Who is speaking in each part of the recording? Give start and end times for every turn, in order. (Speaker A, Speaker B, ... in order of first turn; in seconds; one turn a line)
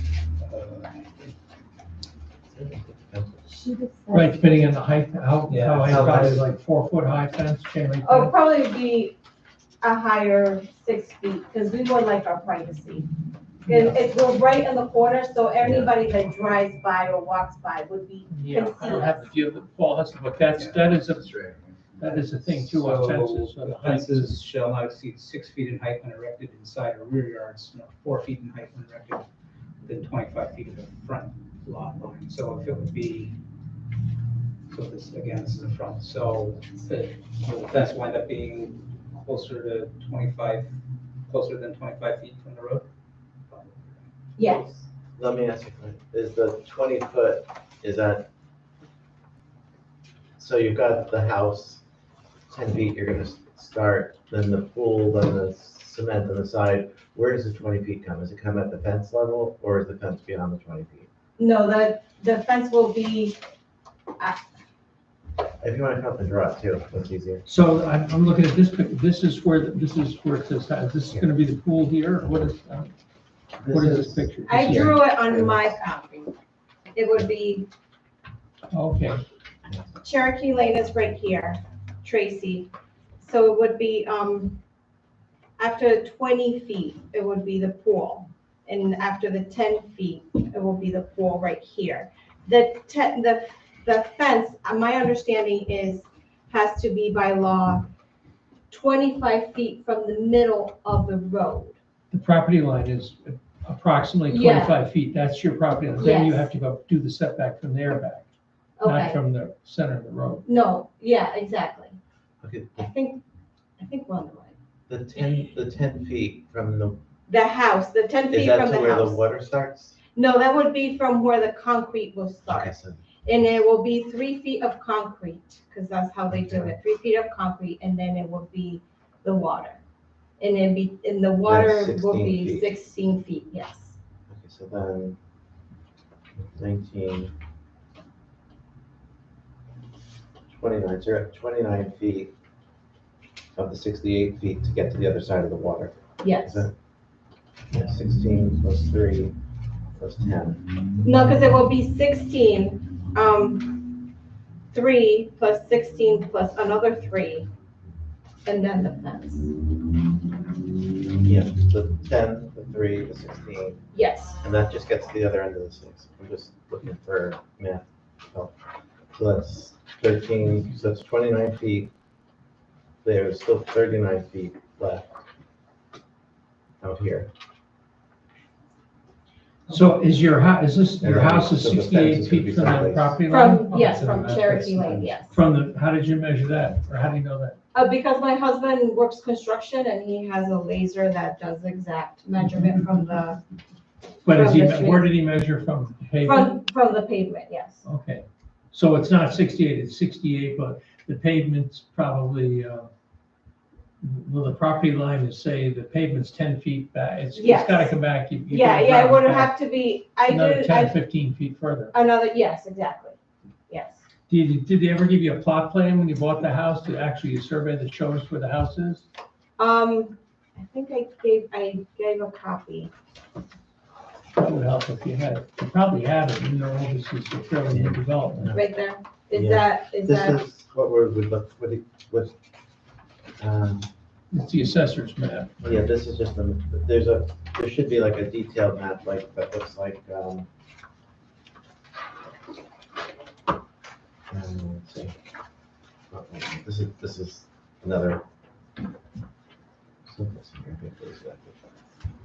Speaker A: 0.4-1.3
Speaker B: 2.5-3.4
Speaker C: 3.5-4.6
Speaker D: 4.1-8.3
Speaker A: 5.5-6.4
Speaker B: 5.8-6.5
Speaker C: 8.0-9.2
Speaker C: 9.8-13.1
Speaker D: 13.7-14.0
Speaker C: 13.7-19.2
Speaker B: 15.6-15.9
Speaker D: 18.3-21.4
Speaker A: 20.6-21.5
Speaker D: 22.0-24.3
Speaker A: 22.1-29.2
Speaker A: 29.8-33.3
Speaker A: 34.7-40.7
Speaker A: 41.3-42.9
Speaker A: 43.5-43.9
Speaker C: 44.4-44.7
Speaker B: 45.1-48.3
Speaker B: 50.4-51.8
Speaker B: 52.5-61.1
Speaker C: 61.4-63.4
Speaker B: 65.6-67.5
Speaker D: 67.5-72.9
Speaker B: 73.6-75.8
Speaker D: 73.7-75.0
Speaker C: 74.5-76.3
Speaker C: 76.9-77.7
Speaker D: 78.7-79.2
Speaker C: 80.0-84.6
Speaker C: 85.6-97.9
Speaker C: 98.7-101.8
Speaker D: 102.1-108.3
Speaker C: 104.3-104.8
Speaker C: 106.0-106.5
Speaker C: 108.8-109.2
Speaker D: 108.8-110.4
Speaker C: 110.5-112.0
Speaker B: 112.4-112.9
Speaker C: 112.8-113.2
Speaker C: 113.8-114.5
Speaker B: 114.9-117.0
Speaker C: 117.3-119.2
Speaker B: 118.3-120.0
Speaker C: 120.1-129.8
Speaker B: 122.5-123.1
Speaker B: 126.3-126.7
Speaker C: 130.4-134.0
Speaker B: 131.4-132.7
Speaker B: 134.3-135.2
Speaker B: 136.4-137.3
Speaker B: 140.5-142.3
Speaker B: 143.6-146.7
Speaker C: 146.2-146.7
Speaker B: 147.7-149.3
Speaker B: 150.0-150.6
Speaker C: 151.0-154.0
Speaker C: 154.7-157.5
Speaker C: 158.4-159.5
Speaker B: 161.2-163.8
Speaker C: 163.9-164.3
Speaker B: 164.4-168.5
Speaker B: 169.1-171.9
Speaker B: 173.0-175.2
Speaker B: 176.8-177.3
Speaker D: 179.7-184.7
Speaker B: 181.0-183.2
Speaker C: 183.3-185.4
Speaker D: 185.3-187.6
Speaker C: 187.7-193.4
Speaker D: 194.2-196.6
Speaker C: 194.3-195.1
Speaker C: 196.2-197.8
Speaker D: 197.8-202.9
Speaker D: 204.0-209.6
Speaker C: 207.3-207.9
Speaker C: 208.5-211.0
Speaker D: 210.2-211.9
Speaker C: 211.9-213.2
Speaker C: 213.7-214.0
Speaker D: 214.3-219.0
Speaker C: 219.6-222.9
Speaker D: 224.3-228.5
Speaker B: 227.7-228.7
Speaker C: 228.5-230.4
Speaker B: 229.3-232.3
Speaker B: 233.4-233.9
Speaker D: 234.3-235.8
Speaker B: 235.6-240.5
Speaker B: 244.3-245.2
Speaker B: 246.1-248.2
Speaker B: 250.0-251.6